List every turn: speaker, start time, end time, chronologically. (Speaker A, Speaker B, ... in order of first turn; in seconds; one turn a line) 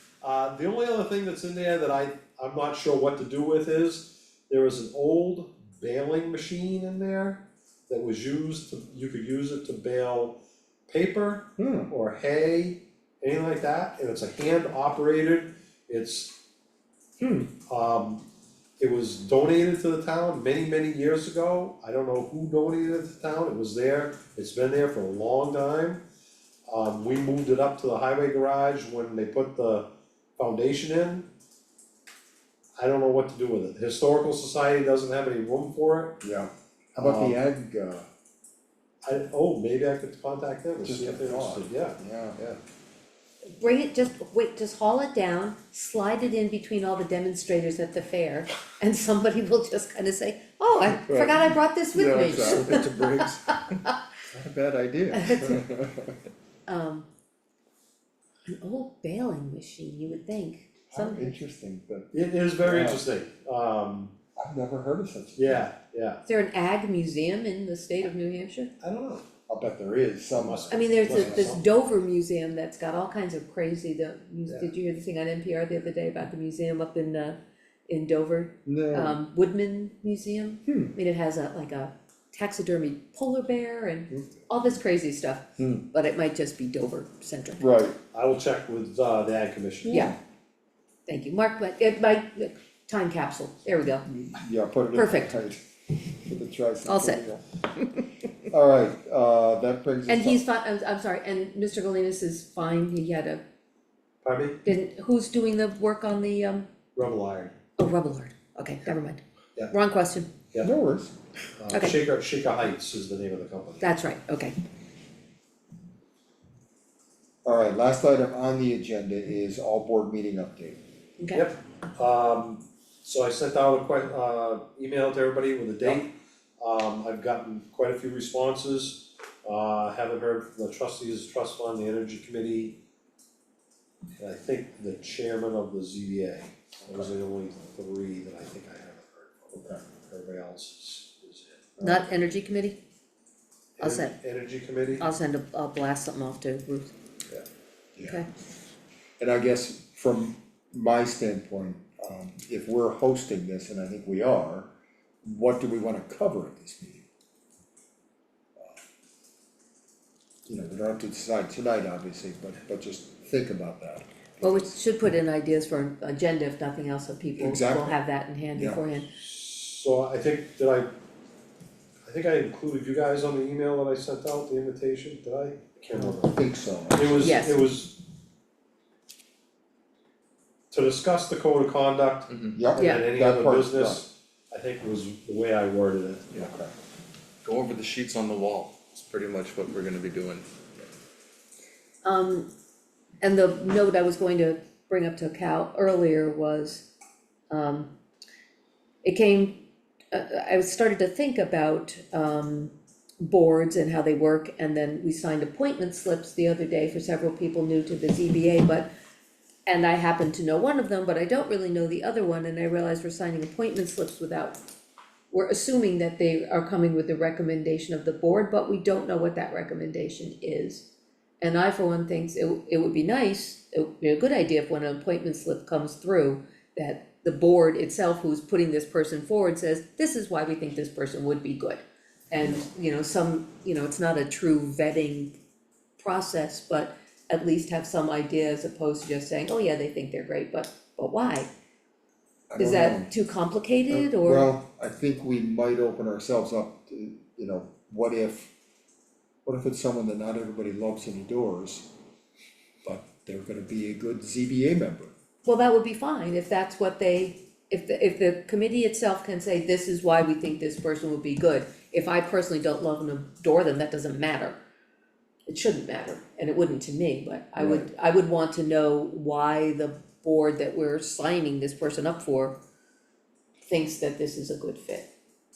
Speaker A: 0.2-16.4
Speaker B: 11.6-11.9
Speaker B: 17.2-17.5
Speaker A: 17.6-18.2
Speaker A: 18.8-26.0
Speaker A: 26.6-31.3
Speaker A: 32.8-36.2
Speaker B: 36.2-38.1
Speaker A: 37.0-37.4
Speaker A: 39.0-42.6
Speaker B: 40.8-42.4
Speaker C: 43.6-53.5
Speaker B: 50.8-53.5
Speaker B: 54.3-56.2
Speaker C: 55.1-55.7
Speaker C: 56.7-57.1
Speaker C: 58.5-61.4
Speaker B: 60.9-63.0
Speaker A: 62.1-64.1
Speaker B: 64.3-65.6
Speaker A: 65.3-66.2
Speaker C: 66.2-68.7
Speaker A: 68.8-69.3
Speaker B: 69.5-71.5
Speaker A: 70.3-71.6
Speaker C: 70.7-77.4
Speaker C: 77.9-87.7
Speaker B: 78.7-79.2
Speaker B: 80.7-80.9
Speaker B: 87.6-88.0
Speaker A: 88.1-90.0
Speaker B: 89.9-90.1
Speaker C: 89.9-90.2
Speaker C: 91.1-94.1
Speaker B: 94.1-95.6
Speaker C: 94.9-95.3
Speaker B: 96.2-97.4
Speaker C: 96.8-97.2
Speaker B: 98.4-100.4
Speaker C: 100.1-103.4
Speaker A: 104.2-104.6
Speaker C: 104.6-106.7
Speaker A: 106.9-107.5
Speaker C: 107.8-110.3
Speaker B: 110.6-111.1
Speaker A: 111.6-113.9
Speaker C: 111.7-112.0
Speaker C: 113.8-114.5
Speaker B: 117.4-120.8
Speaker C: 121.2-121.5
Speaker A: 121.3-132.8
Speaker A: 134.2-141.7
Speaker B: 136.8-137.1
Speaker B: 139.5-139.8
Speaker B: 141.8-142.1
Speaker C: 141.8-142.8
Speaker A: 143.8-145.1
Speaker C: 143.8-144.2
Speaker C: 145.0-146.9
Speaker B: 148.0-148.2
Speaker B: 149.2-154.7
Speaker B: 155.2-157.1
Speaker B: 160.4-164.7
Speaker C: 164.4-169.1
Speaker B: 167.4-168.0
Speaker B: 168.5-168.8
Speaker A: 169.2-170.9
Speaker A: 172.1-176.4
Speaker B: 176.1-177.5
Speaker A: 176.9-178.0
Speaker C: 177.2-177.7
Speaker A: 180.7-186.3
Speaker D: 182.3-182.6
Speaker B: 182.5-184.0
Speaker C: 182.8-183.1
Speaker B: 186.3-186.7
Speaker D: 187.4-190.5
Speaker C: 192.0-192.5
Speaker C: 193.2-196.9
Speaker C: 197.5-197.9
Speaker C: 199.0-208.9
Speaker C: 209.7-214.6
Speaker C: 215.3-220.9
Speaker C: 221.4-235.3
Speaker C: 236.0-241.5
Speaker B: 242.5-243.1
Speaker C: 242.6-244.5
Speaker B: 243.9-248.5
Speaker B: 249.4-251.9
Speaker B: 252.8-255.1
Speaker C: 255.4-264.6
Speaker C: 265.5-272.6
Speaker B: 267.6-267.9
Speaker C: 273.7-275.1